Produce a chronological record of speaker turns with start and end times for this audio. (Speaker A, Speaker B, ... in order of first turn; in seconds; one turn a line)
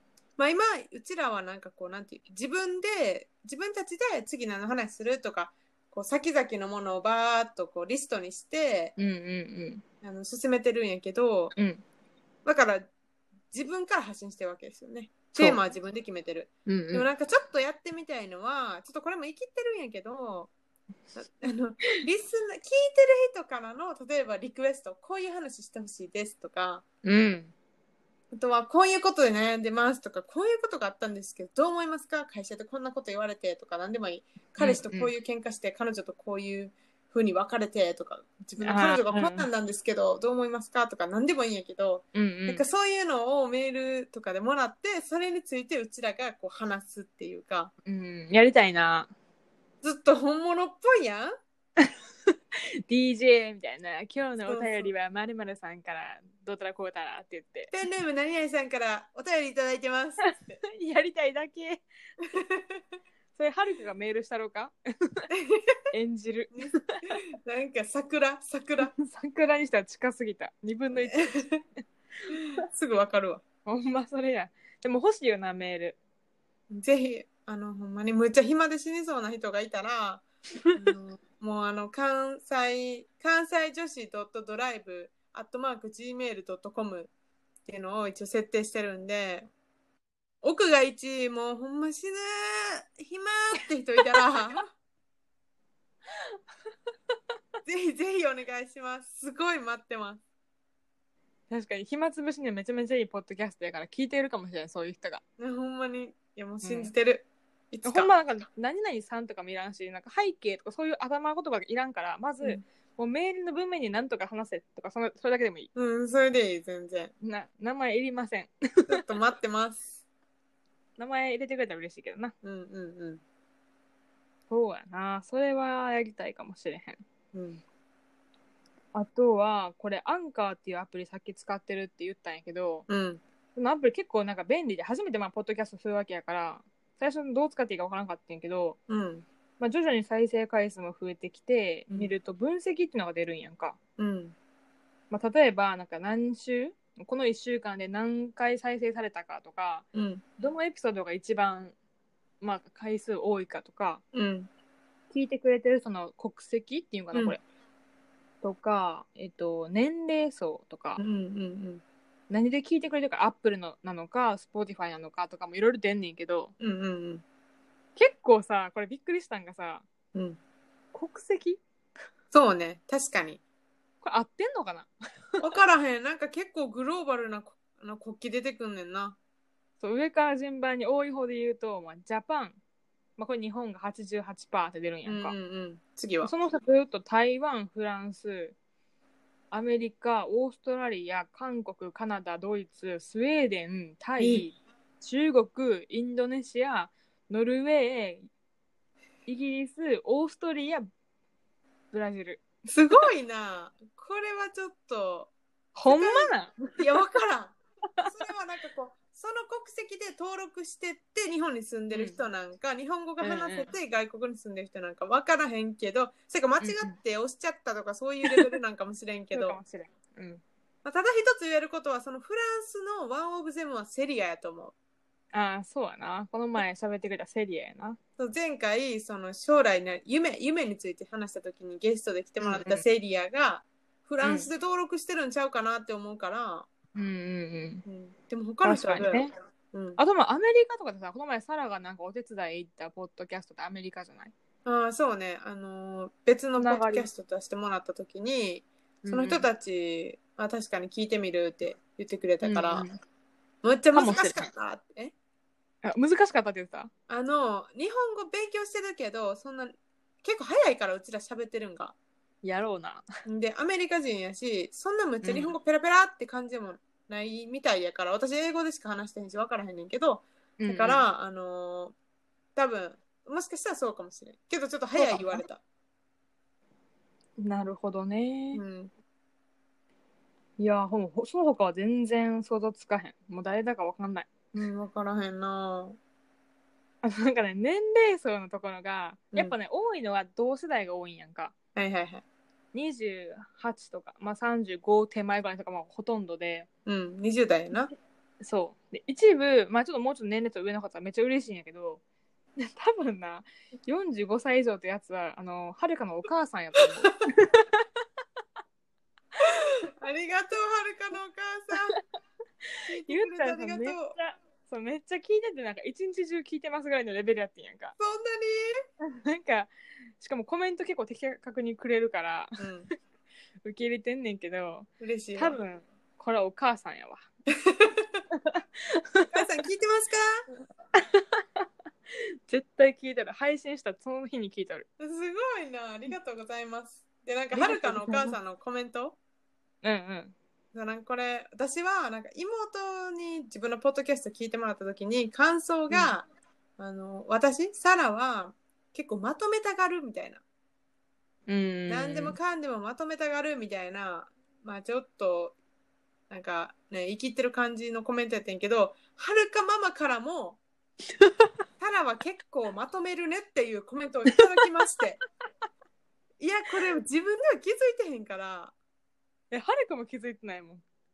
Speaker A: 0.4-8.9
Speaker B: 9.0-9.8
Speaker A: 10.0-11.5
Speaker B: 11.5-11.8
Speaker A: 12.4-12.9
Speaker A: 13.5-20.5
Speaker B: 15.3-15.6
Speaker B: 16.7-17.1
Speaker A: 21.1-26.8
Speaker B: 27.0-27.5
Speaker A: 28.3-47.7
Speaker B: 34.6-35.1
Speaker B: 38.6-39.5
Speaker B: 42.1-42.6
Speaker B: 47.9-49.1
Speaker A: 49.8-51.3
Speaker B: 52.5-57.7
Speaker A: 54.5-54.9
Speaker A: 57.7-60.6
Speaker B: 60.2-61.8
Speaker A: 62.3-62.8
Speaker B: 63.4-65.3
Speaker A: 65.3-65.8
Speaker B: 65.9-67.2
Speaker A: 67.4-68.9
Speaker B: 68.8-71.3
Speaker A: 71.0-71.6
Speaker A: 72.3-73.4
Speaker B: 73.7-76.0
Speaker A: 76.7-87.1
Speaker A: 87.7-89.5
Speaker A: 90.4-94.7
Speaker A: 97.7-100.2
Speaker B: 101.5-105.2
Speaker A: 105.4-108.1
Speaker B: 106.6-106.9
Speaker B: 107.8-115.7
Speaker A: 115.8-117.1
Speaker B: 117.2-118.9
Speaker A: 118.9-120.0
Speaker B: 121.0-122.3
Speaker A: 122.4-123.2
Speaker B: 124.5-127.0
Speaker A: 127.3-127.6
Speaker B: 128.9-132.9
Speaker A: 132.9-133.2
Speaker B: 133.5-138.8
Speaker A: 138.9-139.2
Speaker B: 139.6-143.8
Speaker A: 144.0-144.3
Speaker B: 145.1-149.8
Speaker A: 149.9-150.2
Speaker B: 150.4-151.8
Speaker B: 152.4-154.0
Speaker A: 154.1-154.5
Speaker B: 155.1-157.4
Speaker B: 158.4-161.0
Speaker A: 161.0-161.8
Speaker B: 162.3-166.5
Speaker A: 166.6-167.2
Speaker B: 168.0-169.8
Speaker B: 170.9-171.6
Speaker A: 172.3-173.4
Speaker B: 174.0-175.4
Speaker A: 175.4-179.2
Speaker B: 179.8-182.6
Speaker B: 183.2-185.4
Speaker A: 185.1-186.3
Speaker B: 186.2-188.6
Speaker B: 189.5-198.3
Speaker A: 194.2-194.5
Speaker B: 199.3-200.9
Speaker B: 201.9-203.1
Speaker A: 202.7-205.3
Speaker B: 205.8-206.6
Speaker A: 205.9-219.6
Speaker B: 211.9-212.2
Speaker B: 213.2-213.7
Speaker B: 216.6-217.0
Speaker B: 219.3-220.4
Speaker A: 220.8-224.7
Speaker B: 225.3-228.0
Speaker A: 228.2-236.7
Speaker B: 232.4-232.8
Speaker B: 234.2-234.5
Speaker B: 236.9-237.8
Speaker A: 237.9-240.0
Speaker B: 238.6-239.3
Speaker B: 240.0-244.3
Speaker A: 244.6-252.9
Speaker B: 246.6-247.1
Speaker B: 249.0-249.5
Speaker B: 252.4-253.0
Speaker A: 253.6-255.1
Speaker B: 253.9-254.5
Speaker B: 255.8-256.9
Speaker A: 257.1-261.9
Speaker B: 262.4-263.0
Speaker A: 263.2-271.9
Speaker B: 265.2-265.5
Speaker B: 270.6-271.1
Speaker A: 272.6-275.6
Speaker B: 274.9-275.4
Speaker B: 277.4-278.6
Speaker A: 278.5-278.9
Speaker B: 280.6-284.5
Speaker A: 284.5-286.0
Speaker B: 287.0-291.5
Speaker A: 291.8-292.2
Speaker B: 292.7-296.7
Speaker A: 296.9-297.9
Speaker B: 298.4-302.0
Speaker B: 302.6-307.8
Speaker A: 310.0-312.0
Speaker A: 312.9-314.2
Speaker B: 313.0-318.0
Speaker A: 318.0-318.7
Speaker B: 319.0-322.7
Speaker A: 322.6-322.9
Speaker B: 323.6-327.3
Speaker A: 325.0-325.6
Speaker A: 327.6-328.2
Speaker B: 328.3-329.4
Speaker A: 329.3-330.4
Speaker B: 331.0-331.6
Speaker B: 332.5-334.9
Speaker A: 335.0-339.2
Speaker B: 337.5-338.4
Speaker B: 339.8-340.4
Speaker A: 340.7-346.2
Speaker A: 346.8-350.4
Speaker B: 351.5-352.4
Speaker A: 351.9-355.6
Speaker A: 356.3-360.6
Speaker B: 361.2-361.5
Speaker A: 361.8-365.2
Speaker A: 366.4-368.7
Speaker B: 369.5-370.8